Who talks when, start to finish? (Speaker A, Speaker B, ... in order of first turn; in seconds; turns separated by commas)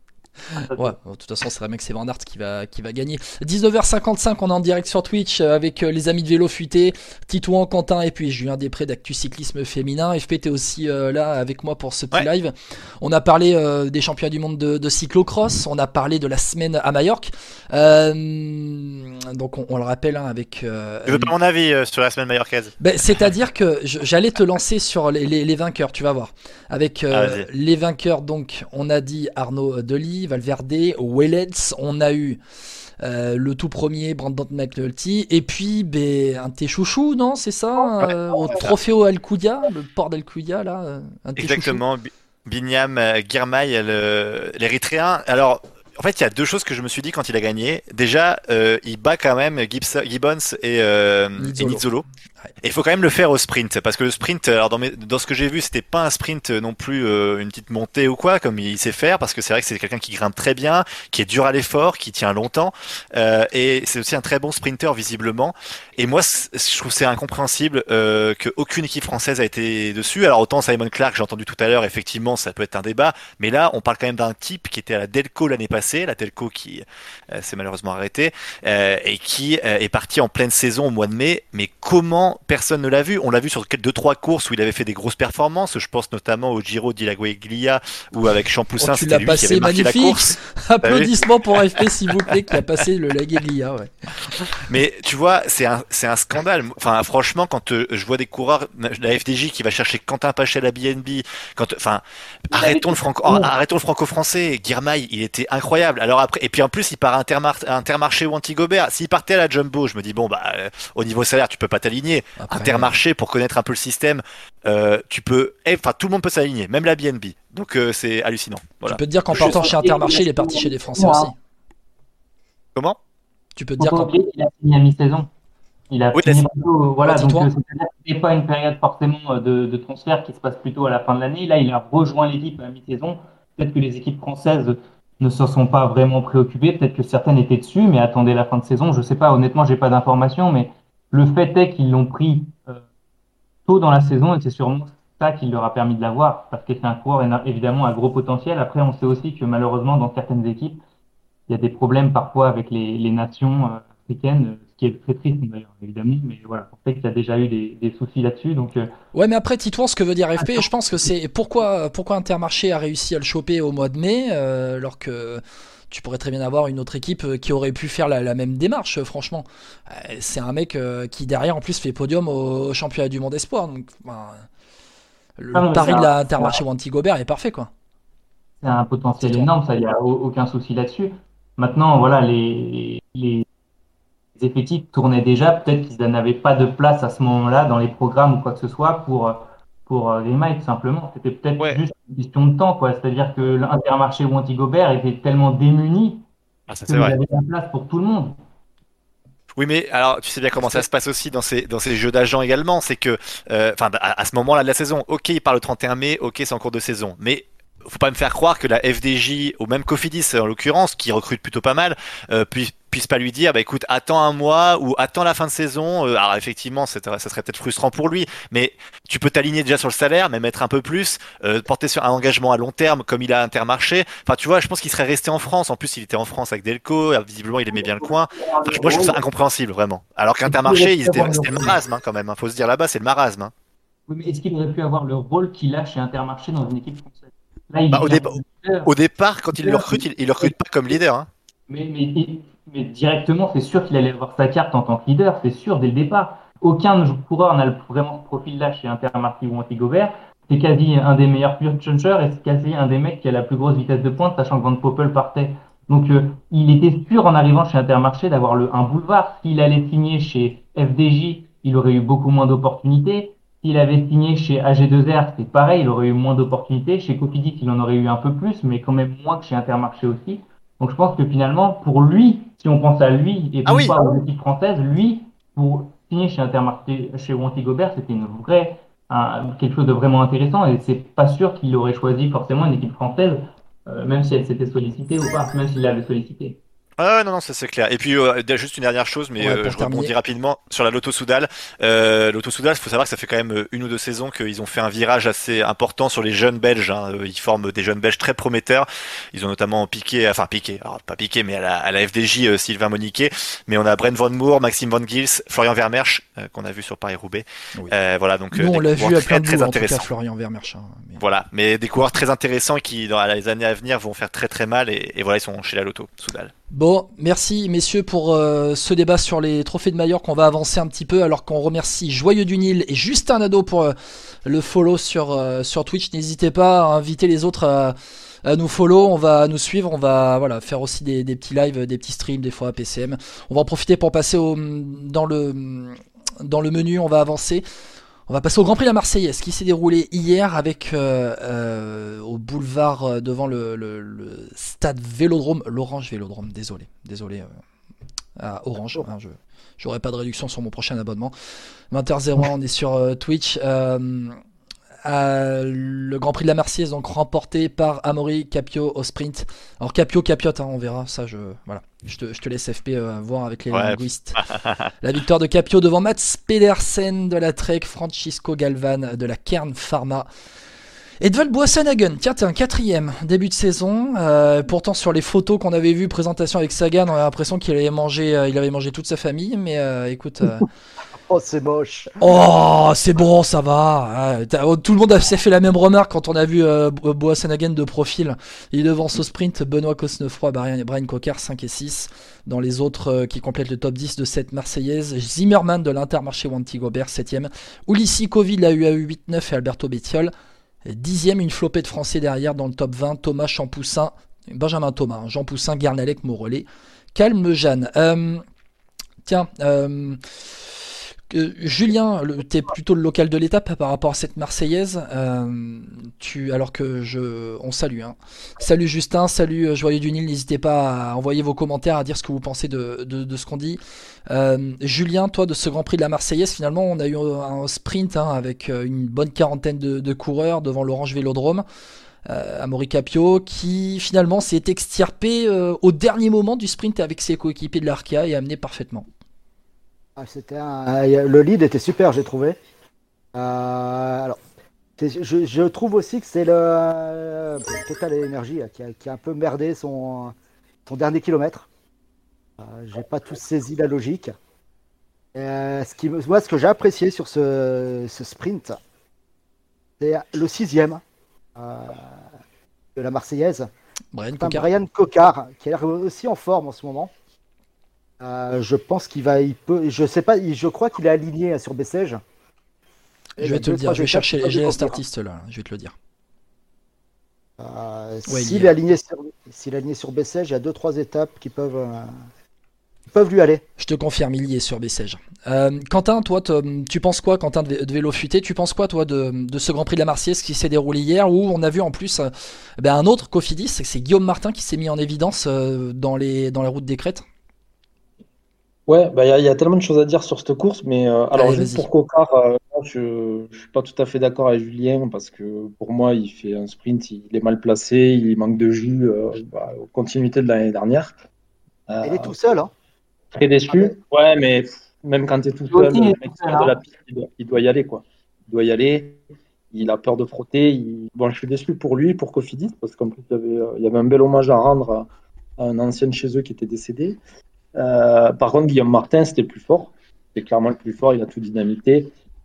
Speaker A: 0.5-21.3, Speaker B: 21.1-22.7, Speaker A: 22.8-32.4, Speaker B: 27.1-27.5, Speaker A: 33.0-41.8, Speaker B: 38.0-38.7, Speaker B: 41.4-52.0, Speaker A: 51.4-51.8, Speaker B: 52.6-91.1, Speaker A: 88.8-93.9, Speaker B: 94.6-119.7, Speaker C: 102.5-103.5, Speaker A: 112.4-112.9, Speaker A: 118.9-121.3, Speaker C: 119.3-121.3, Speaker A: 123.6-124.1, Speaker C: 123.8-125.3, Speaker C: 125.9-142.8, Speaker B: 126.1-126.4, Speaker A: 127.0-127.5, Speaker C: 143.7-150.8, Speaker C: 151.5-158.9, Speaker A: 159.1-174.5, Speaker C: 160.4-160.7, Speaker A: 175.4-177.7, Speaker C: 175.5-176.6, Speaker C: 178.6-183.4, Speaker A: 179.2-179.5, Speaker C: 184.4-196.2, Speaker B: 196.7-197.2, Speaker C: 196.9-198.4, Speaker B: 199.6-233.5, Speaker C: 200.6-200.8, Speaker C: 227.7-229.2, Speaker C: 230.5-231.8, Speaker C: 234.1-238.9, Speaker B: 237.9-241.3, Speaker C: 239.6-240.5, Speaker C: 241.7-286.6, Speaker B: 273.7-273.9, Speaker B: 287.0-310.1, Speaker A: 289.4-290.1, Speaker A: 308.5-311.2, Speaker B: 311.2-316.5, Speaker A: 316.7-337.6, Speaker A: 338.3-347.5, Speaker A: 348.4-351.3, Speaker A: 351.9-354.4, Speaker A: 355.0-364.4, Speaker B: 363.7-364.9, Speaker A: 365.0-370.3, Speaker A: 371.2-380.7, Speaker D: 381.3-382.1, Speaker A: 382.2-400.3, Speaker A: 400.9-408.4, Speaker A: 409.2-410.8, Speaker A: 411.3-431.6, Speaker A: 432.3-439.1, Speaker D: 440.2-442.6, Speaker D: 443.3-444.4, Speaker D: 445.0-450.4, Speaker D: 450.9-451.7, Speaker D: 452.6-454.3, Speaker D: 455.3-458.8, Speaker D: 460.0-461.0, Speaker D: 461.6-462.2, Speaker D: 463.0-463.7, Speaker A: 464.1-464.7, Speaker D: 464.4-467.1, Speaker D: 468.2-472.2, Speaker D: 473.4-475.0, Speaker A: 473.4-475.9, Speaker D: 477.6-482.1, Speaker A: 478.3-478.7, Speaker D: 483.1-483.6, Speaker A: 483.8-497.2, Speaker E: 498.9-511.1, Speaker A: 501.3-501.9, Speaker E: 511.9-512.4, Speaker D: 512.0-512.7, Speaker E: 513.3-527.2, Speaker D: 513.7-514.0, Speaker C: 515.7-516.8, Speaker E: 527.8-532.1